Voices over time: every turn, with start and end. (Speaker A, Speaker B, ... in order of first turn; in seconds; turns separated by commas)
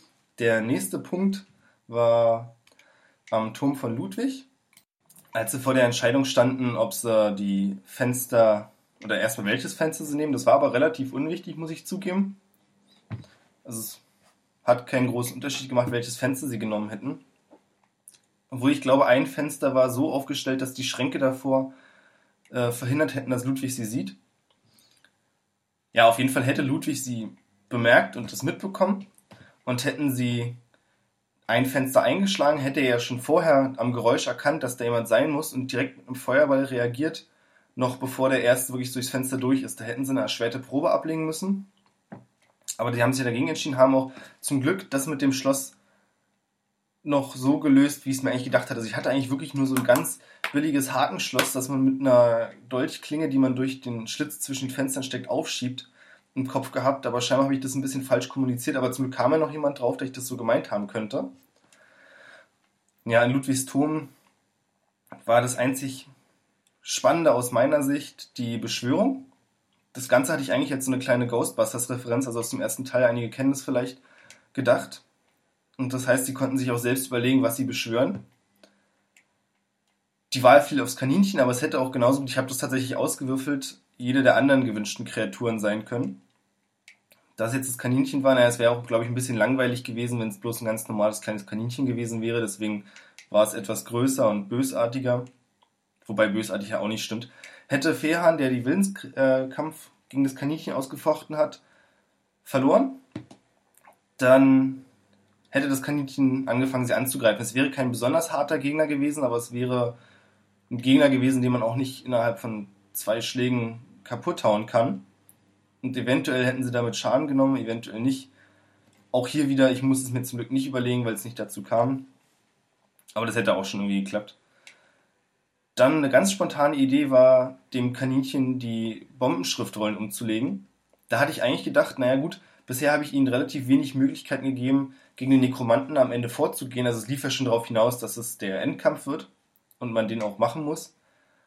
Speaker A: 0.4-2.5, Speaker A: 3.3-4.5, Speaker A: 5.3-12.4, Speaker A: 13.6-14.0, Speaker A: 14.6-17.2, Speaker A: 18.5-21.7, Speaker A: 22.5-24.2, Speaker A: 25.9-29.1, Speaker A: 29.6-30.6, Speaker A: 31.5-41.7, Speaker A: 42.8-45.8, Speaker A: 47.0-61.3, Speaker A: 63.0-64.1, Speaker A: 65.2-66.1, Speaker A: 66.8-69.3, Speaker A: 69.9-74.0, Speaker A: 74.5-75.0, Speaker A: 75.8-78.2, Speaker A: 80.3-86.2, Speaker A: 87.4-95.3, Speaker A: 96.0-101.6, Speaker A: 102.4-103.0, Speaker A: 104.2-104.9, Speaker A: 105.5-110.0, Speaker A: 110.7-115.1, Speaker A: 115.8-118.3, Speaker A: 119.1-122.1, Speaker A: 123.1-124.4, Speaker A: 125.8-140.9